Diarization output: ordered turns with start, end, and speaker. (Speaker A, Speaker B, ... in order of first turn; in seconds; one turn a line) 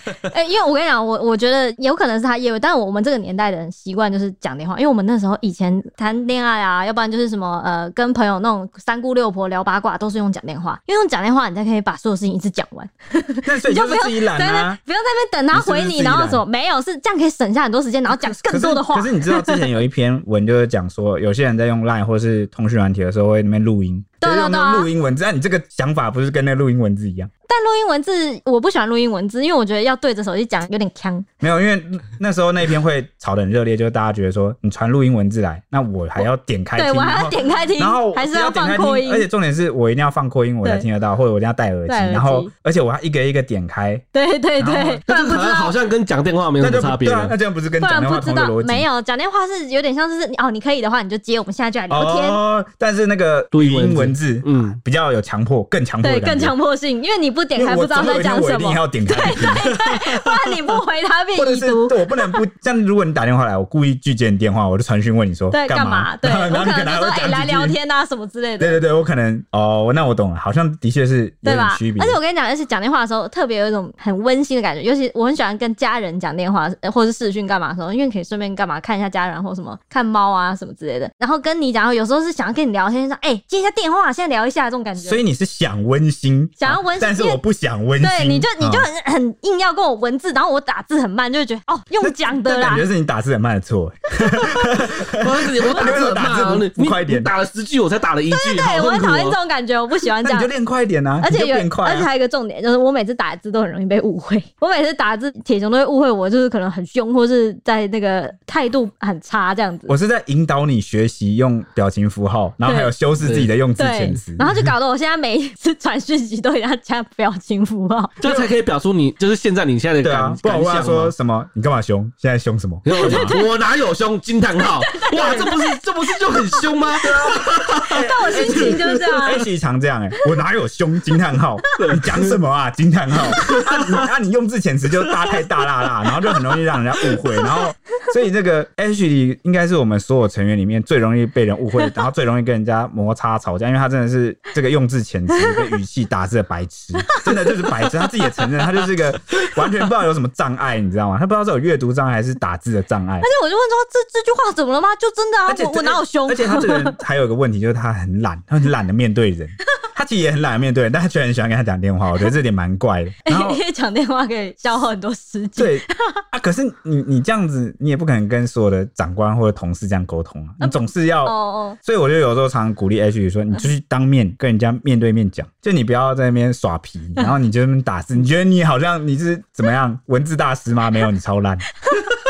Speaker A: 0.3-19.7
Speaker B: 13.4-14.8
Speaker B: 15.5-16.4
Speaker B: 18.1-27.3
Speaker A: 24.2-24.9
Speaker A: 27.5-31.2
Speaker B: 31.4-44.0
Speaker A: 36.8-39.3
Speaker A: 41.9-42.5
Speaker A: 44.1-45.7
Speaker B: 44.6-45.0
Speaker C: 45.1-47.3
Speaker B: 46.6-48.9
Speaker A: 47.8-52.4
Speaker B: 51.9-56.5
Speaker C: 53.5-54.8
Speaker A: 56.0-62.4
Speaker B: 57.5-59.8
Speaker C: 60.0-60.5
Speaker B: 61.3-67.8
Speaker A: 65.5-68.8
Speaker B: 68.6-72.2
Speaker A: 71.4-85.2
Speaker B: 85.0-88.9
Speaker A: 86.6-87.4
Speaker A: 88.0-92.9
Speaker B: 92.0-97.3
Speaker C: 94.8-99.4
Speaker A: 95.7-96.0
Speaker A: 98.3-100.5
Speaker B: 100.2-102.1
Speaker A: 101.2-109.9
Speaker B: 109.9-114.5
Speaker A: 112.6-112.9
Speaker C: 113.2-113.5
Speaker A: 113.8-118.2
Speaker C: 118.2-121.1
Speaker B: 118.2-118.5
Speaker B: 120.0-123.3
Speaker C: 122.8-129.0
Speaker A: 122.9-123.5
Speaker A: 124.8-125.7
Speaker B: 125.2-125.4
Speaker B: 127.0-153.3
Speaker A: 127.9-129.4
Speaker C: 131.8-132.4
Speaker C: 133.4-134.1
Speaker A: 145.3-145.7
Speaker A: 147.0-148.4
Speaker A: 153.2-156.9
Speaker B: 155.5-163.6
Speaker A: 163.2-166.2
Speaker B: 165.6-181.7
Speaker A: 170.6-171.8